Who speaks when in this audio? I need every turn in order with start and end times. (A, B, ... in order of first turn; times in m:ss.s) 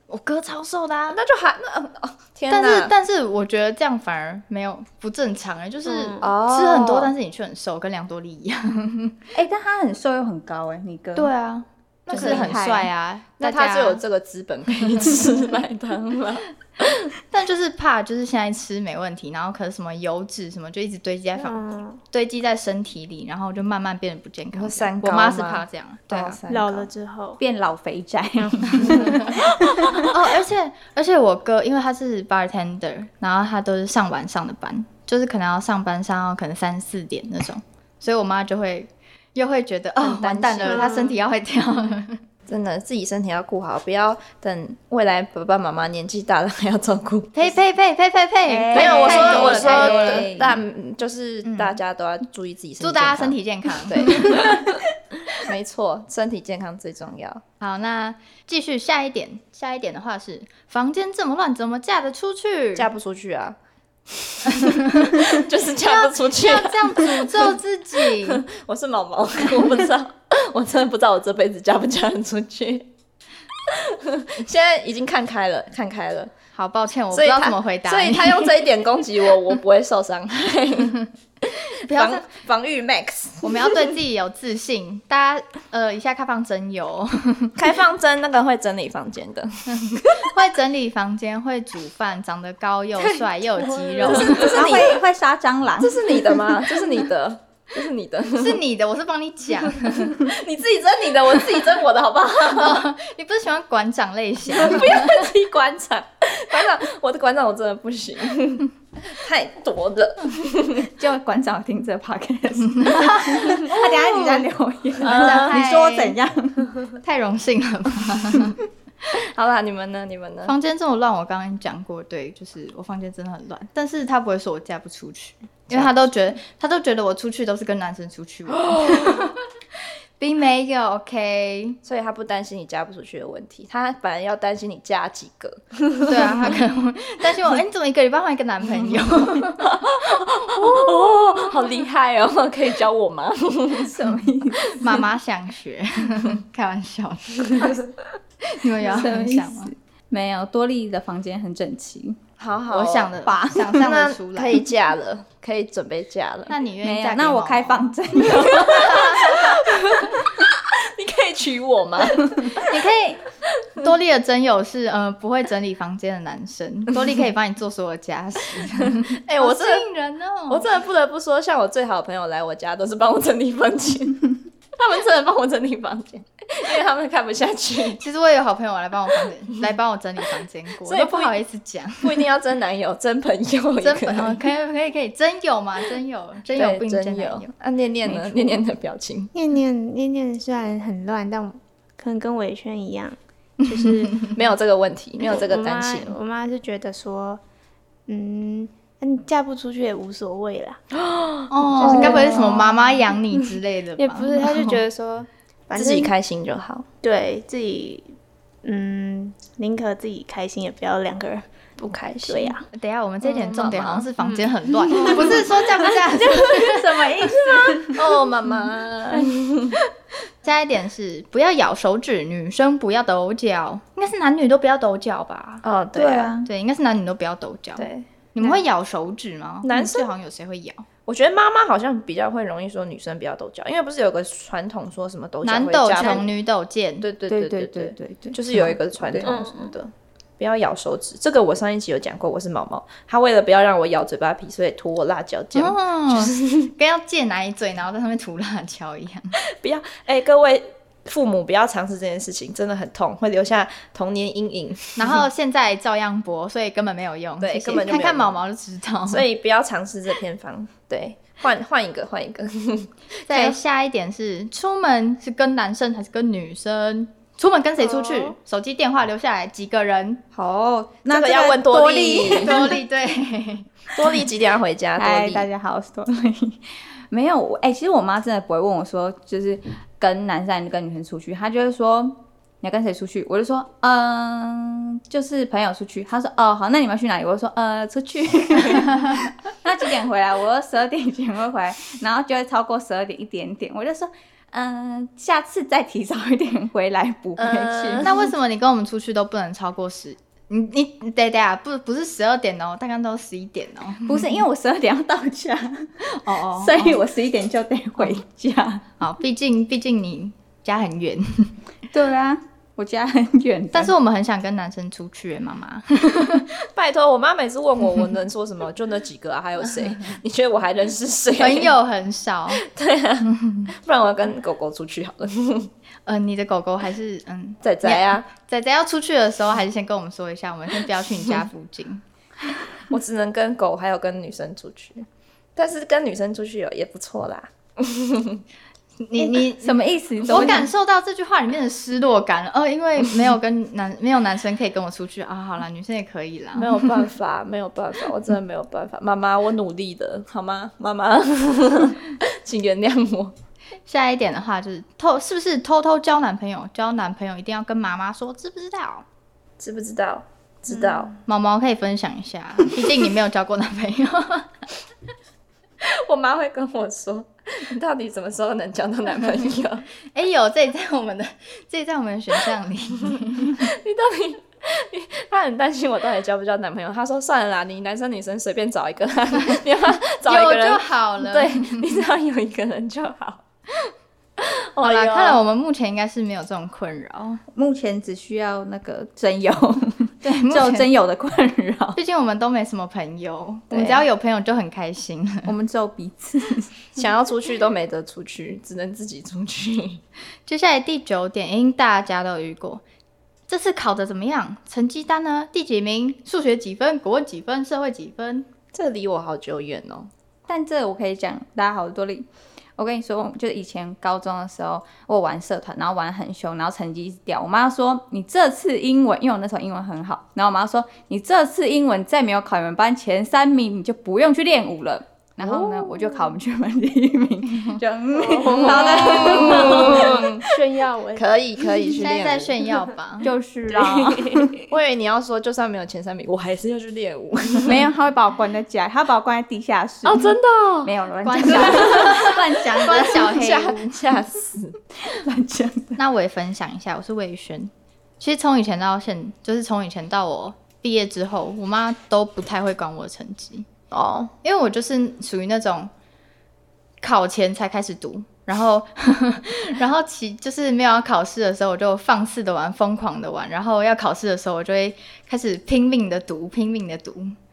0:00.1-0:01.2 A
0:01.1-0:02.9 B
0:02.5-0:09.2 A
0:05.9-0:06.2 C
0:06.2-0:07.1 B
0:09.4-0:11.3 D
0:11.2-0:14.0 A
0:12.1-0:12.7 B
0:12.1-0:12.9 D
0:13.4-0:17.1 B
0:17.3-0:26.4 A
0:21.4-0:22.0 C
0:24.6-0:26.9 B
0:26.5-0:27.4 C
0:27.4-0:30.1 D
0:28.4-0:29.5 C
0:28.8-0:29.2 A
0:30.0-0:42.2 A
0:40.0-0:41.0 B
0:42.5-0:47.6 B
0:47.3-0:50.3 A
0:48.5-0:50.6 D
0:48.7-0:54.8 B
0:51.4-0:51.8 A
0:52.8-0:54.7 A
0:55.3-0:57.4 B
0:57.6-1:02.9 A
1:02.8-1:03.6 B
1:04.1-1:12.9 B
1:04.6-1:05.2 A
1:05.8-1:08.4 A
1:13.7-1:16.3 B
1:16.6-1:18.6 A
1:17.1-1:21.0 B
1:21.6-1:23.9 B
1:21.8-1:22.2 A
1:23.4-1:27.6 A
1:27.6-1:30.3 B
1:29.8-1:34.7 A
1:34.0-1:35.0 B
1:34.1-1:36.2 D
1:35.8-1:38.6 B
1:38.4-1:40.2 A
1:39.8-1:42.9 B
1:42.4-1:45.2 A
1:44.5-1:50.9 B
1:50.8-1:56.9 D
1:52.8-1:54.4 A
1:55.0-1:55.7 B
1:55.0-1:56.2 A
1:57.0-1:58.6 A
1:59.1-2:00.5 B
2:00.4-2:09.4 A
2:05.7-2:06.0 B
2:08.8-2:09.2 B
2:10.2-2:11.8 A
2:11.8-2:16.5 B
2:16.0-2:20.0 A
2:19.5-2:24.2 B
2:20.6-2:20.8 A
2:23.8-2:24.8 D
2:24.7-2:27.8 A
2:28.5-2:29.7 A
2:28.8-2:32.2 D
2:32.4-2:36.5 B
2:32.7-2:34.6 A
2:33.2-2:33.9 D
2:36.5-2:40.0 A
2:36.8-2:39.5 D
2:38.3-2:42.8 B
2:42.6-2:43.2 A
2:43.8-2:50.7 A
2:48.9-2:49.8 B
2:50.5-2:58.0 B
2:58.0-3:02.2 A
3:00.8-3:01.4 B
3:02.0-3:04.4 B
3:03.8-3:07.5 A
3:06.5-3:09.3 B
3:08.0-3:08.6 A
3:09.3-3:14.2 C
3:13.6-3:14.3 A
3:14.3-3:16.2 B
3:15.2-3:17.4 C
3:18.1-3:20.8 C
3:21.5-3:24.8 A
3:21.8-3:22.9 C
3:21.8-3:22.6 B
3:24.0-3:26.1 C
3:25.7-3:26.9 B
3:27.0-3:28.1 C
3:28.6-3:31.4 C
3:31.8-3:32.6 B
3:32.3-3:32.6 C
3:32.7-3:37.1 A
3:33.2-3:34.1 B
3:35.0-3:38.2 D
3:35.1-3:35.4 B
3:37.8-3:39.8 B
3:40.4-3:45.6 A
3:45.6-3:46.4 B
3:45.9-3:46.5 D
3:46.4-3:50.8 A
3:47.8-3:48.5 B
3:49.6-3:50.1 B
3:51.1-3:56.3 B
3:55.4-3:57.1 A
3:57.0-3:59.7 B
3:57.3-3:59.4 D
3:59.2-3:59.7 C
3:59.5-3:59.9 A
4:00.4-4:06.7 B
4:05.6-4:09.3 A
4:09.4-4:15.2 B
4:15.0-4:19.2 A
4:17.4-4:18.4 B
4:19.1-4:23.6 B
4:23.3-4:30.2 A
4:27.8-4:28.3 C
4:30.3-4:32.8 D
4:31.1-4:32.8 B
4:32.4-4:33.7 A
4:34.0-4:35.5 B
4:35.0-4:58.1 D
4:57.4-4:58.3 B
4:58.0-5:04.4 A
5:04.1-5:08.8 D
5:06.2-5:07.0 A
5:09.0-5:11.5 A
5:11.9-5:13.9 D
5:13.7-5:16.5 A
5:16.8-5:21.8 B
5:21.4-5:22.6 A
5:22.5-5:25.7 B
5:23.3-5:23.7 A
5:26.1-5:32.0 A
5:27.6-5:28.3 B
5:32.9-5:38.4 B
5:39.0-5:46.8 A
5:39.2-5:40.7 D
5:40.3-5:40.6 B
5:46.6-5:53.3 B
5:53.9-5:59.0 A
5:59.6-6:01.1 B
6:01.2-6:04.5 A
6:05.8-6:09.9 B
6:10.1-6:13.6 A
6:13.5-6:25.4 B
6:20.3-6:21.8 A
6:24.8-6:27.4 A
6:27.6-6:32.0 D
6:30.2-6:30.9 A
6:32.0-6:35.5 A
6:33.7-6:34.0 B
6:35.5-6:36.7 D
6:37.0-6:40.0 B
6:40.5-6:42.8 A
6:43.5-6:48.5 A
6:48.7-6:50.1 B
6:50.5-7:10.5 D
7:05.4-7:06.4 C
7:08.1-7:11.3 C
7:08.4-7:10.4 B
7:11.2-7:12.8 B
7:12.0-7:13.3 A
7:13.2-7:14.6 D
7:13.7-7:14.6 C
7:14.7-7:17.9 B
7:17.6-7:23.4 D
7:20.0-7:20.9 B
7:21.2-7:24.0 A
7:21.5-7:22.2 B
7:22.8-7:24.8 B
7:25.0-7:26.0 D
7:26.0-7:33.7 A
7:33.9-7:34.3 B
7:34.4-7:35.9 A
7:37.0-7:47.4 A